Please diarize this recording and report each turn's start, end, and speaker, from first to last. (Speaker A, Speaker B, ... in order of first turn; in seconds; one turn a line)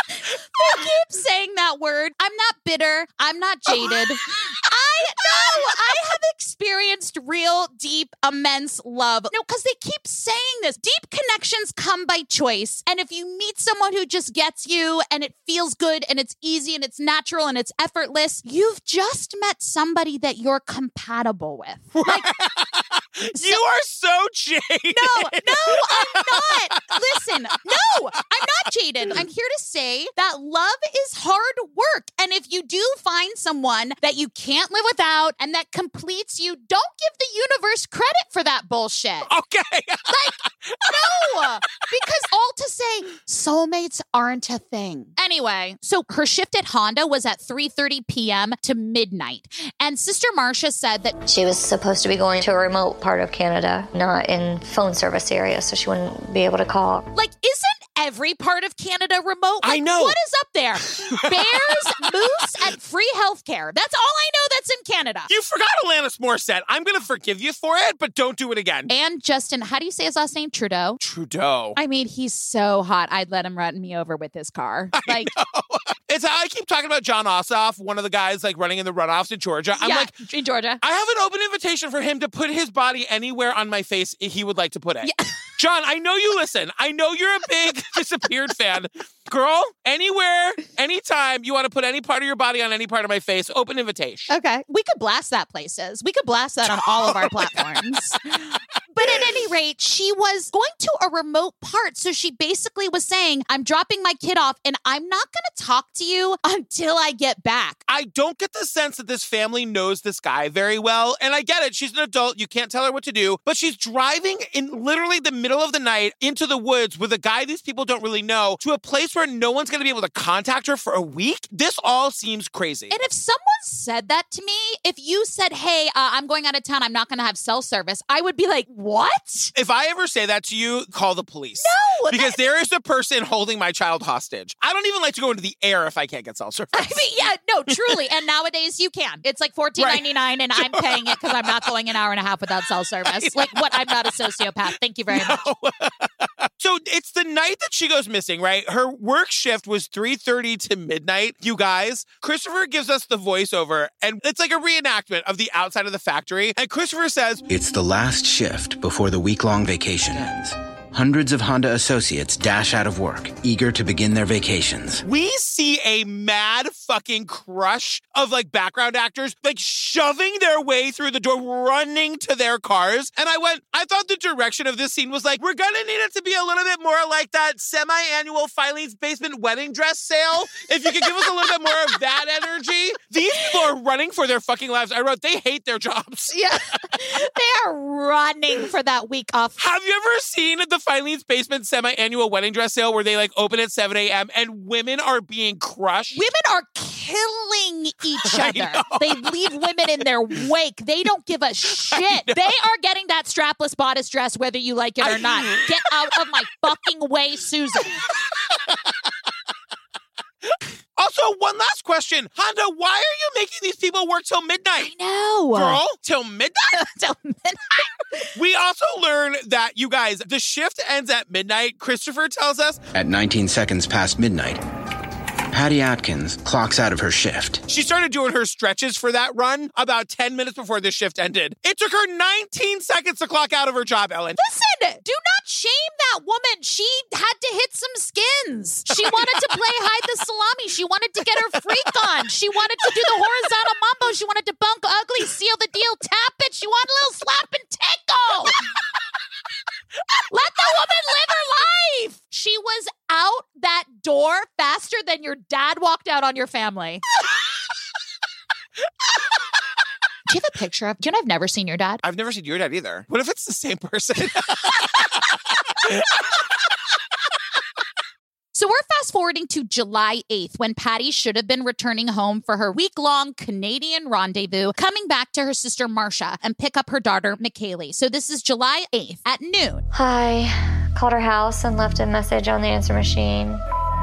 Speaker A: 0.3-22.3
Speaker B: 3.7-4.0
Speaker B: 5.3-5.6
Speaker B: 21.9-26.9
Speaker A: 23.4-23.6
Speaker A: 24.9-39.3
Speaker B: 39.3-41.4
Speaker A: 40.1-51.1
Speaker C: 51.3-57.1
Speaker A: 57.1-65.3
Speaker B: 59.6-60.2
Speaker B: 61.1-61.7
Speaker B: 65.3-68.9
Speaker A: 68.9-71.0
Speaker B: 71.0-71.8
Speaker A: 71.8-75.3
Speaker B: 74.9-80.2
Speaker A: 79.8-80.8
Speaker B: 80.8-94.3
Speaker A: 85.0-85.3
Speaker A: 94.3-107.8
Speaker B: 96.6-97.8
Speaker B: 99.0-99.3
Speaker B: 107.9-123.0
Speaker A: 122.9-129.5
Speaker B: 129.6-137.1
Speaker A: 131.6-132.4
Speaker A: 136.7-145.4
Speaker B: 137.7-138.0
Speaker B: 139.8-140.1
Speaker B: 140.6-141.7
Speaker B: 143.1-144.3
Speaker B: 145.1-157.4
Speaker D: 157.5-165.0
Speaker B: 165.0-186.8
Speaker A: 180.9-182.0
Speaker A: 186.3-189.6
Speaker B: 189.6-196.2
Speaker A: 196.1-208.0
Speaker B: 198.2-199.3
Speaker B: 201.9-202.4
Speaker B: 205.0-205.9
Speaker B: 208.0-208.8
Speaker B: 211.0-214.9
Speaker A: 214.8-215.8
Speaker B: 215.5-216.8
Speaker A: 216.7-218.3
Speaker B: 218.3-222.8
Speaker D: 222.9-224.6
Speaker D: 225.5-227.6
Speaker B: 227.7-234.4
Speaker A: 234.4-248.6
Speaker B: 238.9-239.4
Speaker A: 250.3-257.0
Speaker A: 260.3-262.0
Speaker B: 262.0-266.4
Speaker A: 268.5-279.9
Speaker C: 279.9-283.6